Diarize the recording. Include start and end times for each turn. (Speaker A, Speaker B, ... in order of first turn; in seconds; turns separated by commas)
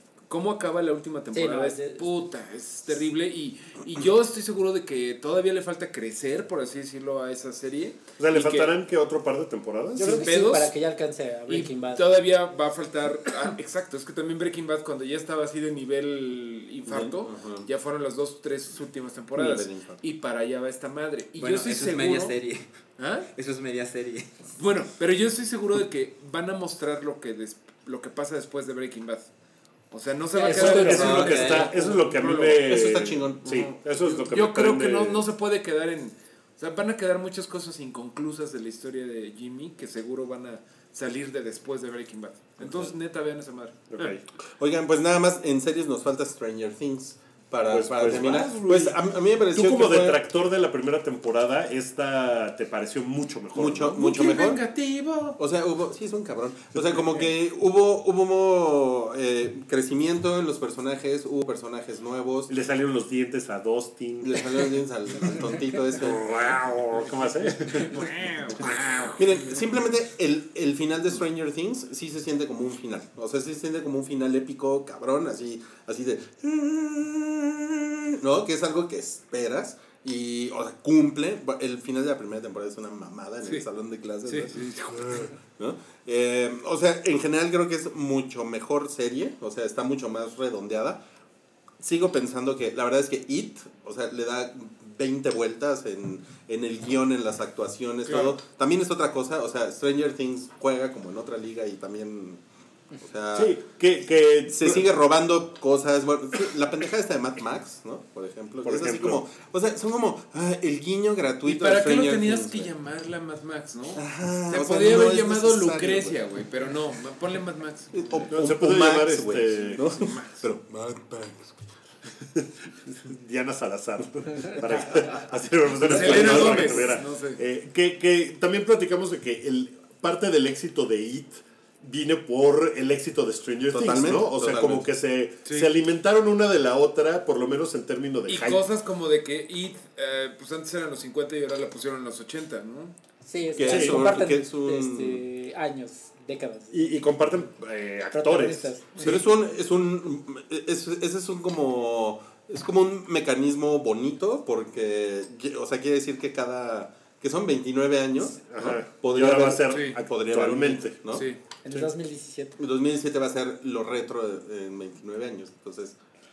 Speaker A: 0.3-8.7, Speaker B: 1.3-2.1, Speaker C: 8.2-10.3, Speaker B: 9.9-12.1, Speaker A: 10.0-10.7, Speaker A: 11.5-22.3, Speaker D: 16.9-17.7, Speaker D: 19.3-20.0, Speaker E: 21.4-22.7, Speaker A: 23.0-23.3, Speaker E: 23.3-24.4, Speaker A: 24.6-29.3, Speaker A: 29.9-32.6, Speaker B: 30.3-32.0, Speaker C: 30.4-35.2, Speaker E: 31.0-31.7, Speaker D: 32.3-33.7, Speaker A: 33.4-44.1, Speaker D: 42.6-42.9, Speaker C: 43.9-44.2, Speaker D: 44.6-50.2, Speaker C: 47.6-54.0, Speaker D: 53.5-54.6, Speaker A: 53.9-55.4, Speaker D: 55.4-62.5, Speaker C: 62.5-64.5, Speaker D: 64.2-66.4, Speaker C: 66.0-69.1, Speaker A: 67.6-68.8, Speaker D: 69.2-91.0, Speaker A: 84.2-85.3, Speaker D: 91.8-102.4, Speaker A: 98.0-98.4, Speaker D: 103.0-103.6, Speaker C: 103.3-104.8, Speaker D: 104.5-112.7, Speaker C: 108.6-109.2, Speaker A: 111.4-118.3, Speaker D: 113.9-116.2, Speaker D: 117.9-121.6, Speaker C: 118.3-120.1, Speaker A: 119.7-120.5, Speaker C: 122.2-138.6, Speaker A: 125.8-127.4, Speaker D: 126.0-126.6, Speaker D: 133.7-134.9, Speaker A: 138.3-142.9, Speaker B: 143.2-146.7, Speaker D: 143.5-145.2, Speaker C: 143.6-144.1, Speaker C: 146.7-149.1, Speaker B: 148.1-149.2, Speaker D: 149.0-161.9, Speaker C: 158.3-161.2, Speaker A: 159.7-160.0, Speaker A: 161.1-161.4, Speaker B: 161.6-162.6, Speaker D: 162.6-166.0